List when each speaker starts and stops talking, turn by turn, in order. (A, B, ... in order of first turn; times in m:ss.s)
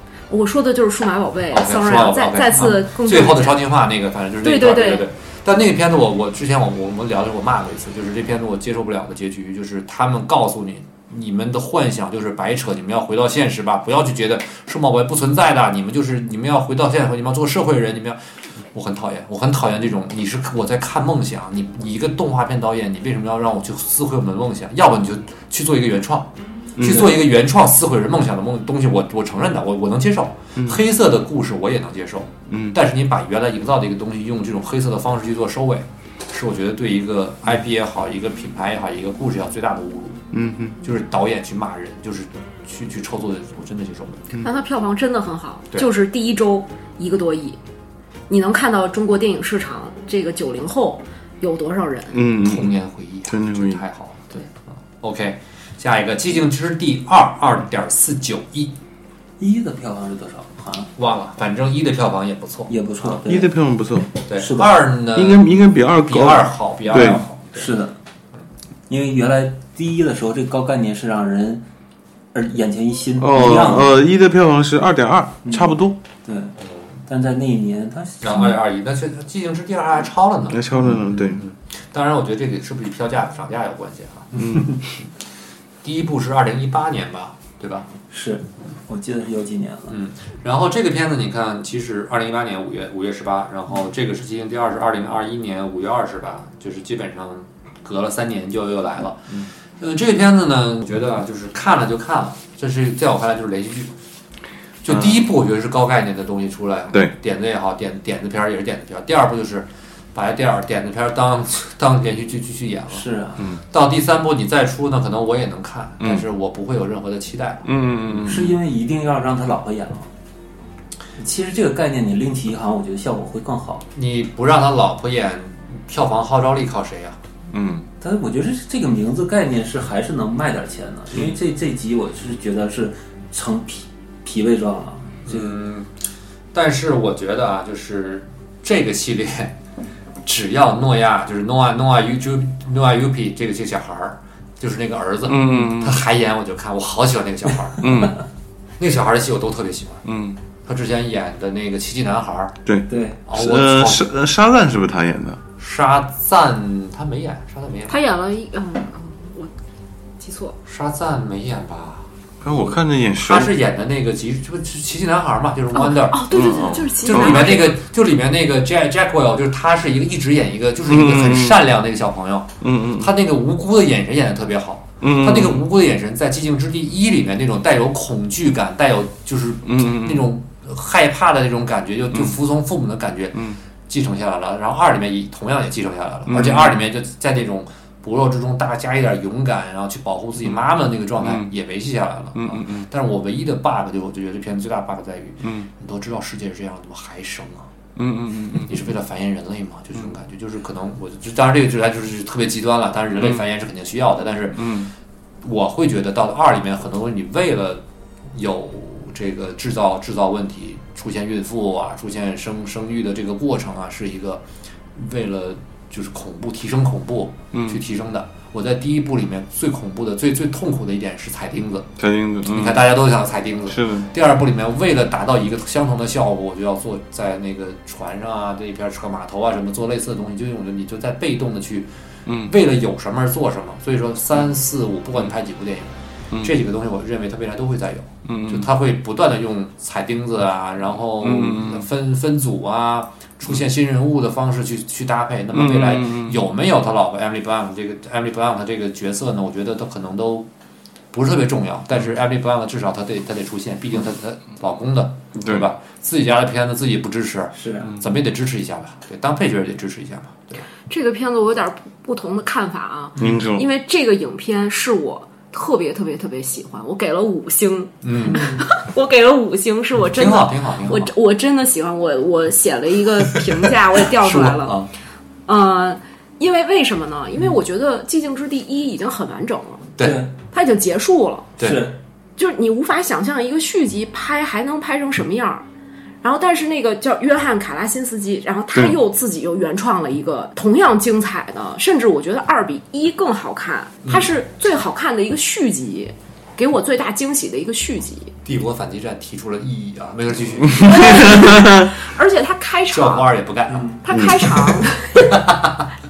0:00.3-0:03.6 A
0:01.5-0:18.2 B
0:04.4-0:05.1 A
0:18.7-0:40.2 B
0:26.8-0:27.1 C
0:32.5-0:32.8 C
0:40.3-0:40.8 C
0:40.8-0:44.3 B
0:44.4-0:47.6 A
0:48.3-0:52.2 A
0:52.1-0:52.8 C
0:52.3-0:58.8 B
0:53.3-0:53.8 C
0:59.4-1:00.9 D
1:01.0-1:03.2 B
1:02.7-1:03.6 D
1:03.3-1:04.1 C
1:04.2-1:07.7 B
1:04.4-1:04.8 D
1:05.2-1:07.2 C
1:06.9-1:08.0 D
1:08.9-1:11.6 D
1:12.3-1:13.9 D
1:13.2-1:16.0 C
1:15.4-1:16.6 D
1:17.1-1:18.6 D
1:18.2-1:24.4 B
1:20.5-1:21.4 C
1:24.4-1:24.8 C
1:25.8-1:27.9 B
1:28.1-1:30.0 D
1:29.9-1:43.9 B
1:44.8-1:53.1 B
1:44.9-1:45.2 C
1:52.9-1:53.5 D
1:53.7-1:58.2 B
1:57.6-1:58.5 C
1:58.2-2:00.1 D
2:01.2-2:03.8 D
2:04.0-2:07.2 B
2:07.5-2:07.9 C
2:08.0-2:15.6 D
2:15.2-2:15.9 B
2:16.5-2:19.6 B
2:20.2-2:28.0 B
2:25.3-2:26.0 C
2:27.8-2:28.2 C
2:28.8-2:30.0 B
2:30.1-2:30.4 C
2:30.6-2:32.6 B
2:32.7-2:35.4 C
2:32.9-2:33.2 D
2:33.3-2:34.1 B
2:35.6-2:38.0 B
2:37.9-2:39.5 A
2:40.2-2:40.6 A
2:40.7-3:17.7 B
2:42.4-2:43.5 C
2:45.7-2:47.8 A
2:46.3-2:47.6 C
2:50.9-2:51.6 C
2:52.6-2:53.1 C
2:55.0-2:55.6 C
2:59.6-3:00.3 C
3:02.1-3:02.4 C
3:06.3-3:06.8 C
3:11.2-3:11.5 C
3:12.4-3:12.9 C
3:15.4-3:15.7 C
3:18.0-3:18.8 C
3:18.7-3:24.7 B
3:24.6-3:24.9 C
3:25.4-3:34.4 B
3:35.0-3:41.9 B
3:37.5-3:37.8 C
3:42.0-3:42.9 C
3:42.5-3:51.9 B
3:43.7-3:44.1 C
3:52.3-3:52.5 C
3:52.4-4:10.5 B
3:58.3-3:58.7 C
4:01.2-4:01.9 C
4:05.5-4:06.4 C
4:11.1-4:20.6 B
4:15.4-4:15.7 C
4:17.5-4:17.9 D
4:20.9-4:34.8 A
4:23.2-4:23.7 C
4:28.0-4:28.6 B
4:30.1-4:31.1 B
4:34.1-4:34.9 B
4:35.5-4:39.9 A
4:40.0-4:40.2 B
4:40.0-4:40.3 D
4:40.5-4:41.5 A
4:41.6-4:41.8 B
4:41.6-4:42.0 D
4:42.4-4:45.7 A
4:46.2-4:58.3 A
4:58.4-5:01.5 B
5:00.8-5:03.3 A
5:00.8-5:01.9 C
5:02.9-5:04.4 B
5:04.0-5:05.4 A
5:05.3-5:05.8 B